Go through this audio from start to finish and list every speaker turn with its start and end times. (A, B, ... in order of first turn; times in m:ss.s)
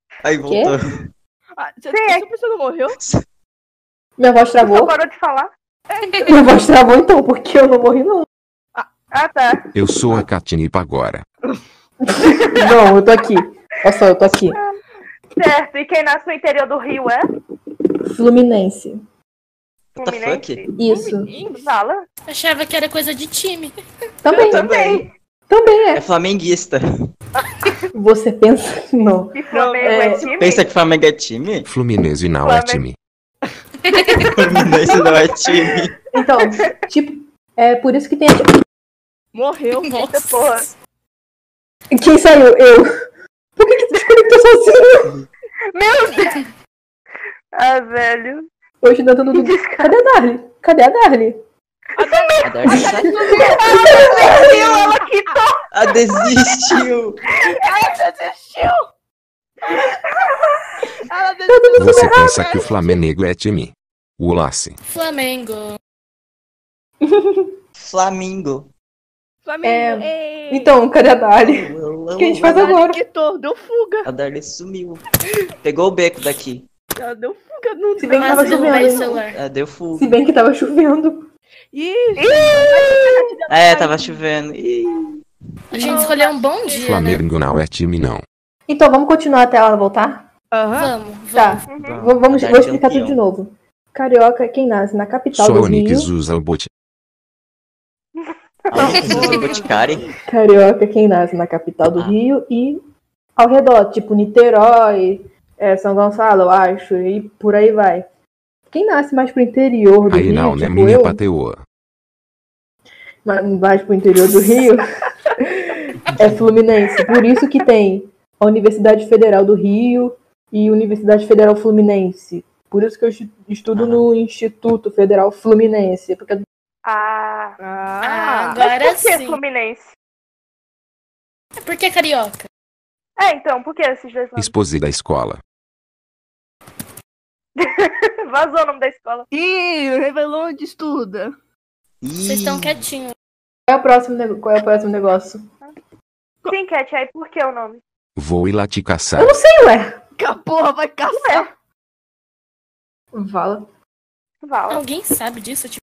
0:00.2-0:00.8 A
0:00.5-0:00.7 B
0:01.6-0:03.0 C
0:01.9-0:02.2 D
0:04.2-0:04.9 B
0:04.6-0:05.5 D
0:06.2-0:08.3 B
0:09.1-0:09.6 D
0:09.8-0:11.2 E
0:12.0-0:14.6 B
0:14.6-0:14.8 D
0:15.4-0:17.3 D
0:18.1-0:19.0 B
0:20.0-0:20.7 A
0:20.0-0:20.7 D
0:20.8-0:21.3 B
0:20.8-0:21.8 C
0:21.5-0:22.0 D
0:22.3-0:23.7 F
0:24.2-0:24.7 B
0:24.3-0:25.1 A
0:24.3-0:25.1 D
0:25.5-0:26.0 B
0:25.9-0:26.8 A
0:27.9-0:30.3 B
0:29.3-0:30.7 D
0:29.5-0:30.3 C
0:30.4-0:31.7 A
0:31.7-0:33.0 E
0:32.4-0:32.8 D
0:33.9-0:34.3 F
0:34.1-0:36.0 A
0:36.1-0:38.6 B
0:39.3-0:40.0 C
0:39.9-0:40.7 F
0:40.0-0:40.7 D
0:41.9-0:42.9 B
0:43.6-0:45.1 B
0:45.7-0:46.4 D
0:47.5-0:48.5 D
0:48.8-0:51.4 B
0:49.3-0:49.9 D
0:52.0-0:55.3 C
0:52.0-0:56.0 D
0:52.4-0:55.0 A
0:53.6-0:54.4 B
0:55.7-0:57.2 A
0:57.4-0:57.9 D
0:57.5-0:58.9 C
1:01.1-1:02.9 C
1:01.5-1:02.3 B
1:01.8-1:04.8 E
1:04.9-1:05.8 F
1:07.0-1:07.5 B
1:07.8-1:08.7 A
1:09.4-1:10.7 C
1:09.6-1:13.0 B
1:11.4-1:12.6 A
1:12.4-1:14.1 C
1:14.0-1:15.0 A
1:15.6-1:16.7 A
1:17.0-1:19.2 C
1:18.0-1:19.2 B
1:18.2-1:19.4 F
1:19.3-1:20.1 A
1:20.0-1:21.3 B
1:21.7-1:24.2 C
1:22.2-1:23.4 D
1:23.5-1:25.2 A
1:25.7-1:26.8 C
1:25.8-1:27.2 F
1:25.8-1:26.1 D
1:26.8-1:28.2 E
1:28.7-1:30.3 B
1:30.5-1:30.9 C
1:30.8-1:31.7 F
1:31.3-1:36.1 B
1:31.7-1:32.0 D
1:31.8-1:33.2 A
1:35.4-1:36.7 E
1:38.2-1:39.4 D
1:38.7-1:40.1 A
1:38.8-1:39.3 B
1:39.0-1:40.1 C
1:40.3-1:42.8 B
1:43.4-1:48.1 B
1:48.7-1:51.2 B
1:50.1-1:51.6 E
1:53.2-1:54.9 B
1:55.5-2:06.4 B
1:56.1-1:56.4 A
2:03.8-2:04.1 A
2:06.8-2:07.6 D
2:07.6-2:08.6 C
2:08.0-2:09.4 F
2:08.6-2:10.0 D
2:11.6-2:12.5 F
2:13.2-2:14.5 D
2:14.4-2:15.4 E
2:17.6-2:19.3 D
2:19.3-2:21.3 C
2:22.0-2:22.8 A
2:22.2-2:23.1 F
2:23.7-2:25.4 B
2:26.5-2:27.8 D
2:28.2-2:29.3 E
2:29.2-2:30.0 B
2:30.2-2:31.5 C
2:31.1-2:31.5 D
2:33.1-2:33.7 B
2:34.4-2:34.8 D
2:34.7-2:35.8 F